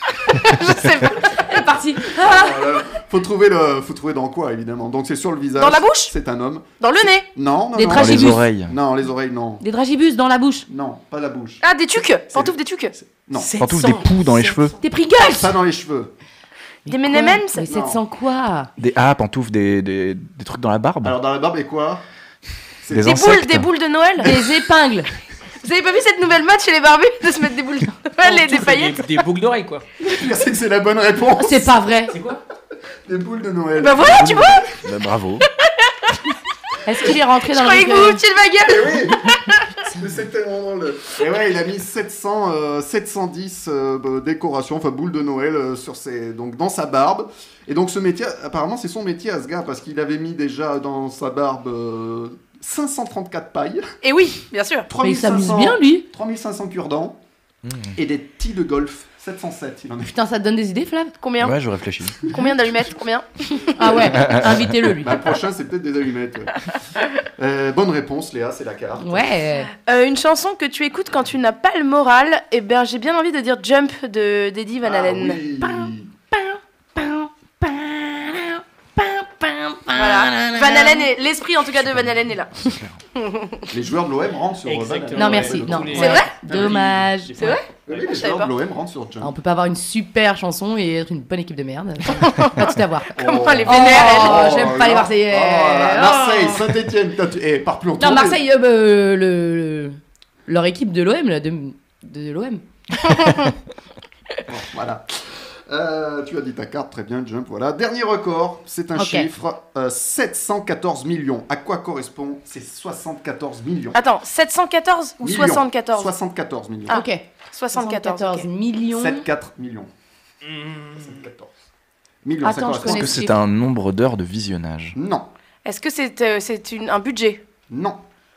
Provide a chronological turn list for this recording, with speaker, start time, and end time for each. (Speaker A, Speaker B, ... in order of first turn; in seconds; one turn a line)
Speaker A: 0.3-1.4
Speaker B: 1.4-2.6
Speaker C: 1.9-9.6
Speaker A: 5.6-6.1
Speaker A: 6.8-7.3
Speaker B: 7.8-8.4
Speaker D: 7.9-8.7
Speaker B: 9.6-10.7
Speaker C: 10.7-11.6
Speaker A: 11.6-12.9
Speaker C: 12.3-13.5
Speaker E: 13.3-14.8
Speaker D: 13.6-14.8
Speaker B: 14.8-15.6
Speaker C: 15.2-16.1
Speaker B: 16.9-18.7
Speaker A: 16.9-17.7
Speaker C: 17.6-18.0
Speaker D: 18.8-21.1
Speaker C: 21.0-22.0
Speaker C: 22.8-23.3
Speaker D: 22.9-23.7
Speaker A: 23.0-24.3
Speaker C: 24.2-24.6
Speaker B: 24.2-25.1
Speaker A: 25.6-29.0
Speaker E: 28.2-29.8
Speaker C: 30.0-31.9
Speaker B: 31.4-32.1
Speaker E: 32.1-32.4
Speaker C: 33.1-34.7
Speaker A: 33.8-34.7
Speaker D: 34.0-35.5
Speaker B: 36.9-38.2
Speaker A: 37.0-39.6
Speaker C: 38.6-39.2
Speaker C: 39.9-53.9
Speaker A: 54.0-54.9
Speaker C: 54.9-57.2
Speaker B: 55.0-56.1
Speaker D: 57.7-57.9
Speaker C: 58.0-60.1
Speaker B: 60.1-61.1
Speaker A: 61.2-61.6
Speaker D: 61.4-62.3
Speaker A: 62.3-64.0
Speaker B: 63.8-65.2
Speaker C: 63.8-66.6
Speaker D: 64.2-64.6
Speaker C: 67.4-69.4
Speaker B: 69.0-69.7
Speaker A: 69.7-75.4
Speaker C: 74.8-76.1
Speaker B: 76.3-81.1
Speaker A: 79.9-82.5
Speaker D: 82.6-83.0
Speaker A: 83.2-83.7
Speaker C: 83.7-86.9
Speaker E: 84.7-88.1
Speaker B: 85.2-87.6
Speaker A: 86.0-86.3
Speaker A: 87.4-88.5
Speaker C: 87.9-89.3
Speaker B: 89.2-93.1
Speaker A: 92.2-94.7
Speaker C: 93.2-98.4
Speaker B: 93.6-96.6
Speaker B: 98.0-102.6
Speaker A: 103.1-103.5
Speaker C: 104.5-114.0
Speaker B: 109.0-109.3
Speaker A: 113.9-116.1
Speaker C: 115.2-117.0
Speaker A: 116.9-118.5
Speaker B: 116.9-119.3
Speaker C: 118.9-119.9
Speaker E: 120.4-121.2
Speaker C: 121.0-121.5
Speaker C: 122.2-123.2
Speaker B: 122.4-123.4
Speaker D: 122.8-125.0
Speaker C: 125.0-125.3
Speaker A: 125.7-127.4
Speaker C: 127.7-128.0